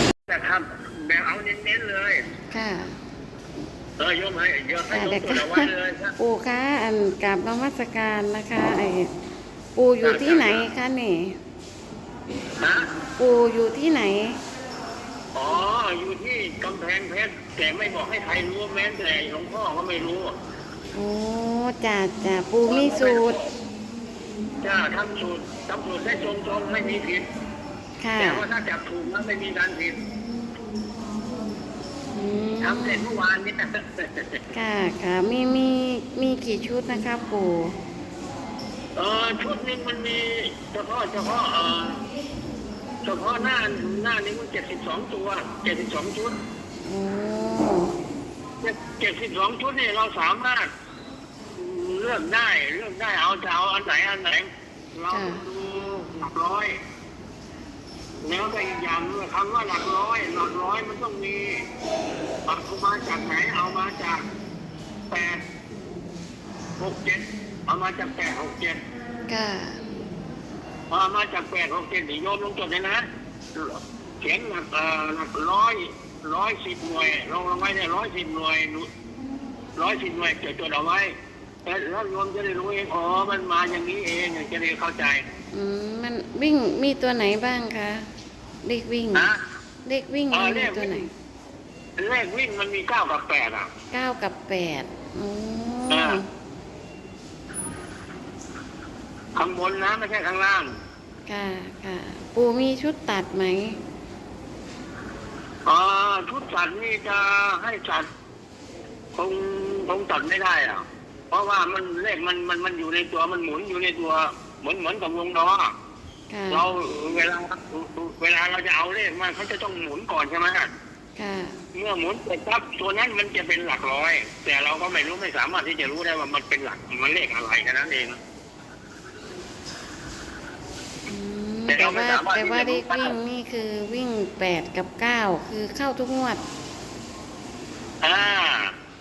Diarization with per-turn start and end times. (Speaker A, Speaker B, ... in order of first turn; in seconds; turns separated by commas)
Speaker A: 0.3-2.2, Speaker B: 2.5-3.0, Speaker A: 4.0-6.1, Speaker B: 4.9-9.1, Speaker B: 9.8-11.4, Speaker A: 10.0-10.6, Speaker A: 12.6-12.9, Speaker B: 13.2-14.4, Speaker A: 15.3-20.4, Speaker B: 20.9-23.4, Speaker A: 22.7-23.5, Speaker A: 24.6-27.3, Speaker B: 28.0-28.4, Speaker A: 28.2-30.0, Speaker B: 32.1-33.0, Speaker A: 32.6-34.4, Speaker B: 34.5-37.8, Speaker A: 39.0-42.0, Speaker A: 43.0-46.4, Speaker B: 46.9-48.0, Speaker A: 48.6-50.7, Speaker A: 51.6-56.8, Speaker B: 55.1-55.5, Speaker A: 58.2-61.7, Speaker A: 62.5-64.3, Speaker A: 65.1-65.4, Speaker A: 66.8-68.8, Speaker B: 69.3-69.8, Speaker A: 70.9-78.9, Speaker A: 79.8-85.2, Speaker B: 85.5-88.1, Speaker B: 88.6-89.3, Speaker A: 89.1-89.4, Speaker B: 89.9-91.1, Speaker A: 90.3-91.0, Speaker A: 92.0-93.7, Speaker B: 93.9-96.2, Speaker A: 95.9-96.2, Speaker A: 99.4-100.7, Speaker B: 101.3-103.8, Speaker A: 105.7-108.0, Speaker A: 109.2-115.7, Speaker B: 116.3-116.7, Speaker A: 116.5-120.7, Speaker B: 121.2-121.6, Speaker A: 121.7-128.2, Speaker B: 131.1-136.4, Speaker A: 131.7-133.2, Speaker A: 138.0-138.7